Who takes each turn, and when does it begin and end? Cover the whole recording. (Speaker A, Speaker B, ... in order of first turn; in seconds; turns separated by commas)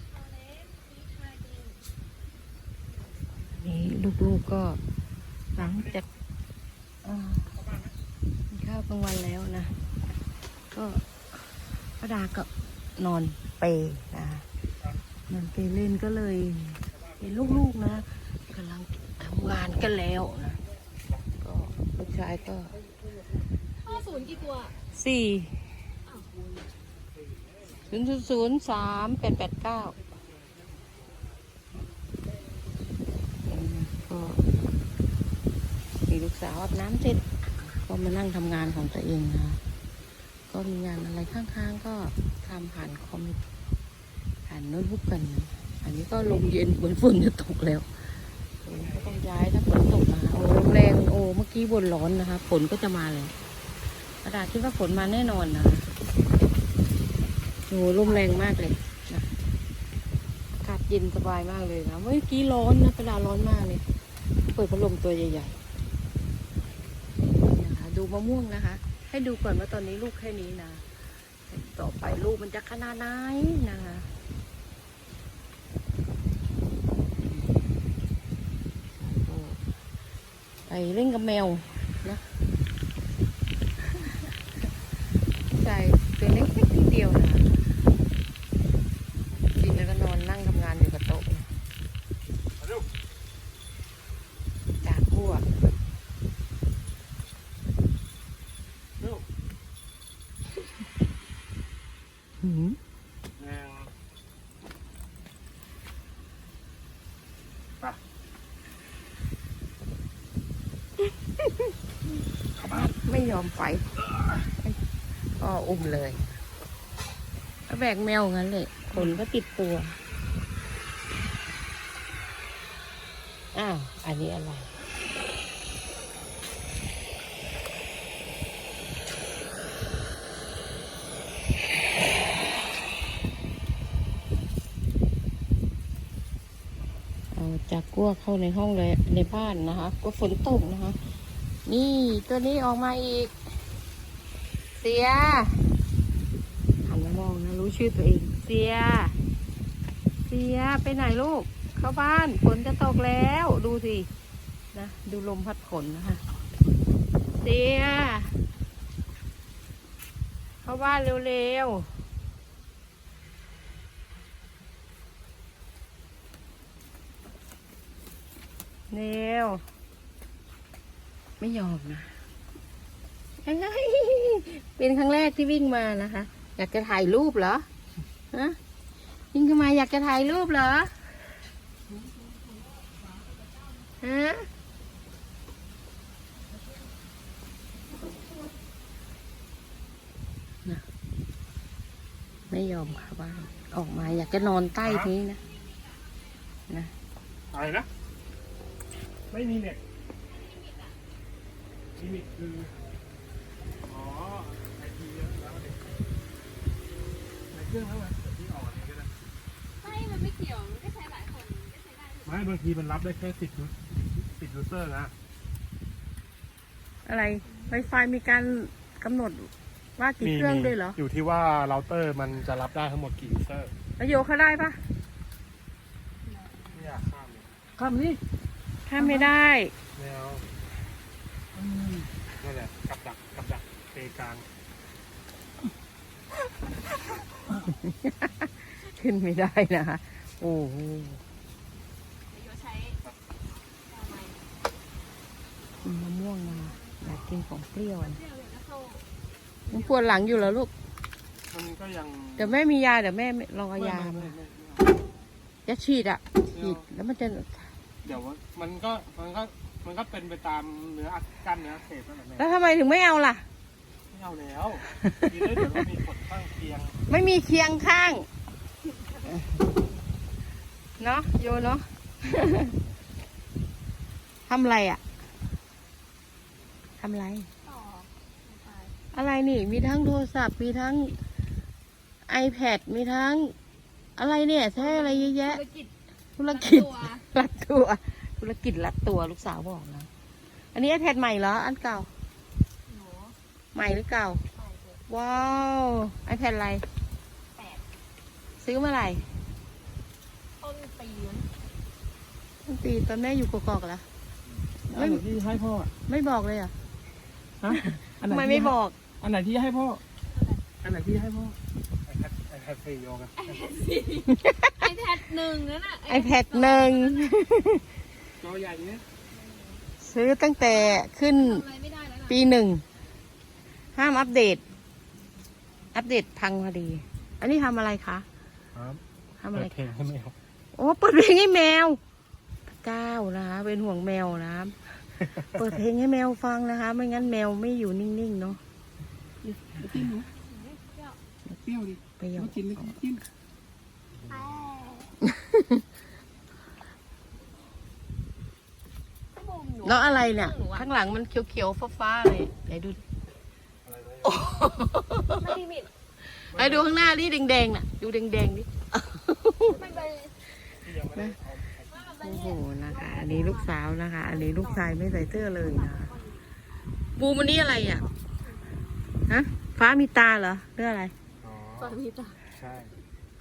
Speaker A: 0.2-1.7, Speaker B: 3.4-4.8, Speaker B: 5.5-6.0, Speaker B: 7.0-7.5, Speaker B: 8.5-9.7, Speaker B: 10.7-14.4, Speaker B: 15.3-20.6, Speaker B: 21.4-22.8, Speaker A: 23.8-24.7, Speaker B: 24.9-25.7, Speaker B: 27.9-29.9, Speaker B: 33.5-34.5, Speaker B: 36.1-39.6, Speaker B: 40.5-43.4, Speaker B: 44.5-47.9, Speaker B: 48.6-53.3, Speaker B: 54.2-55.9, Speaker B: 57.7-59.3, Speaker B: 60.5-63.8, Speaker B: 64.5-65.6, Speaker B: 67.3-70.8, Speaker B: 71.5-74.1, Speaker B: 77.3-77.7, Speaker B: 78.9-79.6, Speaker B: 80.7-82.2, Speaker B: 85.5-87.6, Speaker B: 89.5-91.5, Speaker C: 92.6-92.9, Speaker B: 94.8-95.5, Speaker C: 99.0-99.2, Speaker B: 102.4-102.8, Speaker C: 103.4-103.9, Speaker B: 111.4-111.7, Speaker B: 112.6-114.0, Speaker B: 114.5-114.8, Speaker B: 115.4-116.4, Speaker B: 117.7-120.0, Speaker B: 123.5-124.7, Speaker B: 137.3-141.0, Speaker B: 141.7-143.3, Speaker B: 144.8-145.6, Speaker B: 146.8-149.2, Speaker B: 150.3-154.1, Speaker B: 154.7-156.2, Speaker B: 157.4-158.3, Speaker B: 160.6-161.9, Speaker B: 168.9-169.6, Speaker B: 171.4-172.1, Speaker B: 173.4-177.7, Speaker B: 178.3-178.6, Speaker B: 179.3-181.1, Speaker B: 184.0-184.5, Speaker B: 192.5-195.4, Speaker C: 194.8-195.1, Speaker A: 195.7-196.0, Speaker C: 197.5-197.9, Speaker C: 199.3-199.8, Speaker A: 200.2-201.0, Speaker C: 202.0-202.7, Speaker C: 203.8-205.8, Speaker C: 207.5-209.1, Speaker A: 209.8-212.4, Speaker C: 212.2-215.1, Speaker B: 217.1-221.0, Speaker C: 220.2-223.7, Speaker B: 224.0-224.8, Speaker A: 226.2-226.8, Speaker C: 226.7-228.2, Speaker B: 228.8-229.7, Speaker C: 229.0-229.3, Speaker C: 229.9-230.5, Speaker C: 231.6-234.4, Speaker B: 237.7-241.2, Speaker A: 242.3-243.0, Speaker A: 243.9-244.4, Speaker B: 245.8-248.2, Speaker A: 248.1-249.1, Speaker A: 249.7-250.0, Speaker B: 249.7-250.7, Speaker C: 251.5-252.6, Speaker B: 252.4-254.4, Speaker C: 253.8-254.9, Speaker B: 255.7-257.7, Speaker C: 256.5-256.9, Speaker C: 258.0-262.4, Speaker B: 262.4-263.4, Speaker C: 264.1-266.9, Speaker B: 265.0-265.8, Speaker B: 267.1-268.3, Speaker B: 271.0-272.8, Speaker B: 274.5-275.0, Speaker B: 277.0-277.5, Speaker A: 277.6-278.9, Speaker B: 279.1-281.2, Speaker B: 282.3-283.5, Speaker B: 284.2-285.6, Speaker A: 284.8-285.9, Speaker B: 286.4-290.1, Speaker A: 286.5-287.2, Speaker B: 290.7-292.1, Speaker A: 292.9-293.4, Speaker B: 293.7-294.4, Speaker A: 294.5-295.0, Speaker B: 295.1-296.8, Speaker A: 297.6-297.8, Speaker B: 298.6-299.3, Speaker A: 300.6-301.5, Speaker B: 302.6-304.0, Speaker C: 304.8-305.9, Speaker B: 304.9-305.2, Speaker B: 306.1-306.7, Speaker C: 307.6-310.0, Speaker B: 307.7-309.0, Speaker A: 310.3-310.6, Speaker C: 310.8-313.6, Speaker A: 313.4-317.4, Speaker B: 314.3-314.9, Speaker B: 316.1-317.8, Speaker C: 318.4-319.0, Speaker A: 319.3-319.8, Speaker B: 320.0-321.6, Speaker A: 320.6-322.4, Speaker B: 322.2-322.8, Speaker B: 323.9-324.6, Speaker B: 325.9-328.2, Speaker C: 328.7-329.0, Speaker B: 329.4-329.7, Speaker C: 329.5-330.3, Speaker B: 330.7-332.0, Speaker B: 332.7-338.6, Speaker C: 339.4-340.3, Speaker B: 339.8-340.1, Speaker A: 340.2-341.2, Speaker C: 341.6-342.0, Speaker B: 342.2-343.1, Speaker C: 342.5-343.2, Speaker A: 344.3-345.1, Speaker B: 345.2-345.8, Speaker A: 349.4-350.9, Speaker B: 349.8-353.0, Speaker C: 353.8-354.4, Speaker B: 354.2-355.6, Speaker A: 355.3-355.9, Speaker B: 356.3-359.8, Speaker C: 356.5-357.0, Speaker A: 359.7-360.3, Speaker C: 360.8-362.1, Speaker A: 361.9-363.7, Speaker B: 362.2-366.1, Speaker A: 364.3-365.0, Speaker A: 365.6-366.4, Speaker B: 367.2-368.1, Speaker B: 369.3-371.1, Speaker C: 371.4-372.0, Speaker A: 371.8-372.4, Speaker C: 372.5-372.9